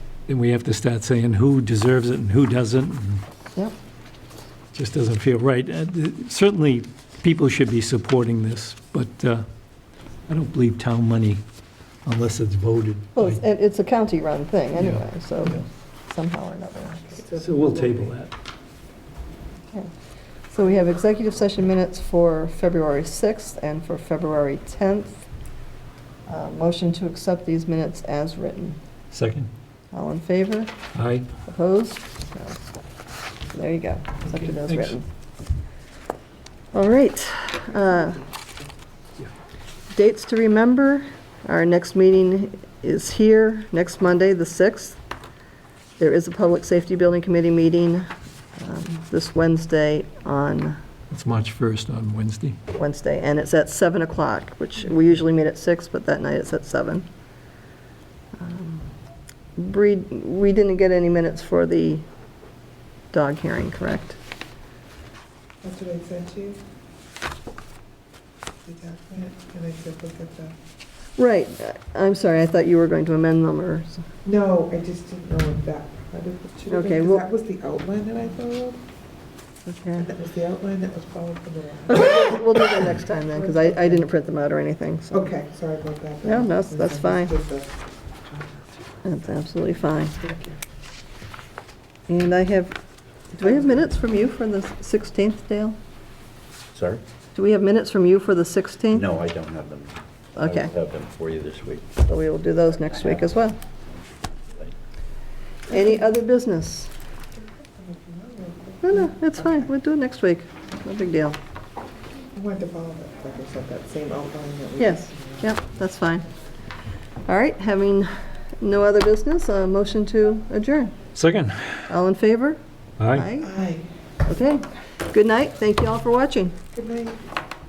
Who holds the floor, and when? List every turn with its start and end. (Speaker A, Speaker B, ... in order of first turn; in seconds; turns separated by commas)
Speaker A: 0.3-3.2, Speaker A: 4.7-9.5, Speaker A: 10.3-11.4, Speaker A: 12.1-13.4, Speaker B: 13.2-17.2, Speaker A: 14.7-15.7, Speaker C: 17.2-18.0, Speaker A: 17.3-18.3, Speaker B: 20.5-25.3, Speaker B: 26.3-28.8, Speaker A: 29.1-29.5, Speaker B: 29.9-30.7, Speaker A: 30.9-31.3, Speaker B: 31.5-32.6, Speaker B: 33.5-35.0, Speaker A: 34.3-35.0, Speaker B: 36.7-38.2, Speaker B: 39.9-45.0, Speaker B: 46.0-50.8, Speaker A: 51.1-52.6, Speaker B: 52.7-57.1, Speaker B: 58.4-58.9, Speaker B: 59.6-62.0, Speaker B: 63.1-64.2, Speaker C: 65.6-66.6, Speaker C: 68.6-70.5, Speaker B: 71.2-74.0, Speaker C: 74.2-78.8, Speaker B: 76.7-77.3, Speaker B: 79.7-80.1, Speaker C: 80.0-83.9, Speaker B: 81.9-85.3, Speaker C: 85.1-87.7, Speaker B: 86.2-87.3, Speaker C: 88.3-88.6, Speaker B: 89.0-90.2, Speaker C: 90.2-90.6, Speaker B: 92.1-92.8, Speaker B: 93.3-95.8, Speaker D: 96.7-97.0, Speaker B: 97.3-99.1, Speaker D: 98.9-101.9, Speaker B: 100.4-100.7, Speaker B: 102.0-103.6, Speaker B: 105.7-106.9, Speaker C: 107.8-109.5, Speaker B: 108.8-111.4, Speaker C: 112.3-115.4, Speaker B: 114.8-116.2, Speaker B: 117.3-120.9, Speaker A: 121.2-121.8, Speaker B: 121.9-123.5, Speaker A: 123.0-123.3, Speaker C: 123.4-123.9, Speaker B: 124.2-126.6, Speaker C: 126.7-127.2